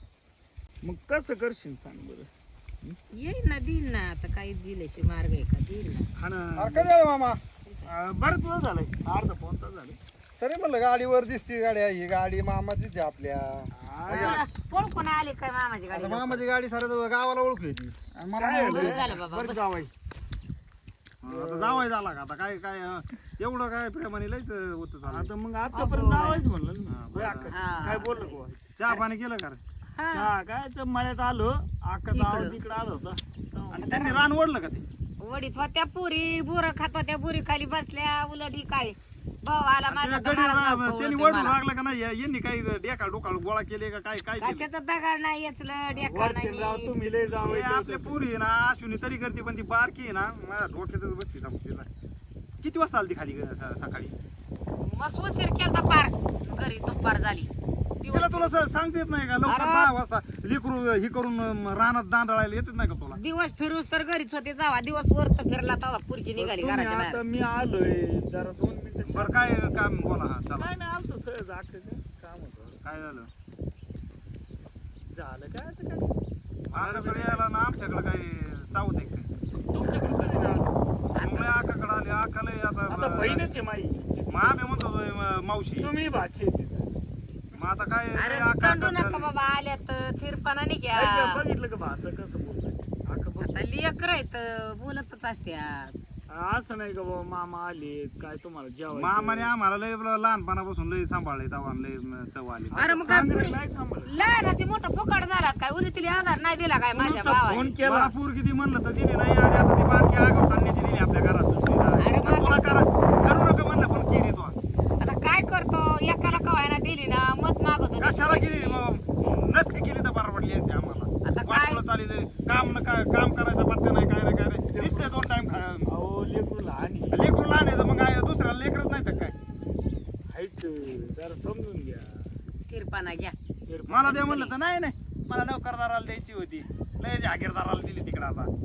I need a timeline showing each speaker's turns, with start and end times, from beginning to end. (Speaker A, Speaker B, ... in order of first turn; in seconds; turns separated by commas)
Speaker A: 0.8-2.3, Speaker B: 3.1-6.1, Speaker A: 6.2-6.9, Speaker C: 6.6-7.4, Speaker A: 7.8-10.0, Speaker C: 10.4-14.4, Speaker A: 13.8-14.4, Speaker B: 14.1-16.4, Speaker C: 15.9-19.1, Speaker A: 18.4-19.9, Speaker B: 18.6-19.6, Speaker C: 21.2-25.3, Speaker A: 21.3-21.8, Speaker A: 25.1-28.6, Speaker B: 25.7-26.4, Speaker C: 26.9-27.5, Speaker B: 27.5-28.4, Speaker C: 28.8-29.6, Speaker B: 29.9-30.3, Speaker A: 30.1-33.9, Speaker B: 32.1-32.6, Speaker C: 33.7-34.8, Speaker B: 33.7-34.2, Speaker B: 35.2-41.6, Speaker C: 39.9-44.7, Speaker B: 44.4-46.9, Speaker A: 45.9-48.2, Speaker C: 47.4-51.9, Speaker C: 52.6-54.1, Speaker B: 54.8-57.5, Speaker B: 58.0-58.5, Speaker C: 58.1-63.2, Speaker B: 59.5-59.9, Speaker B: 63.1-67.2, Speaker A: 66.4-69.3, Speaker C: 69.0-70.7, Speaker A: 70.6-72.8, Speaker C: 72.8-73.3, Speaker A: 75.1-76.1, Speaker C: 76.7-79.3, Speaker A: 76.7-77.4, Speaker A: 79.7-80.8, Speaker B: 81.2-81.5, Speaker C: 81.2-83.5, Speaker A: 82.9-84.7, Speaker C: 84.3-85.9, Speaker A: 85.8-86.9, Speaker C: 87.5-89.3, Speaker B: 88.2-91.4, Speaker A: 90.9-93.6, Speaker B: 93.4-95.9, Speaker A: 96.3-99.5, Speaker C: 98.9-103.2, Speaker A: 102.7-104.1, Speaker B: 102.8-107.7, Speaker A: 106.9-108.1, Speaker C: 107.8-114.5, Speaker B: 112.0-112.6, Speaker B: 115.0-118.8, Speaker C: 118.0-125.9, Speaker B: 121.2-121.8, Speaker A: 124.7-125.1, Speaker A: 125.9-127.2, Speaker C: 127.1-129.3, Speaker A: 130.3-132.2, Speaker B: 132.7-133.3, Speaker A: 133.7-134.5, Speaker C: 133.9-138.5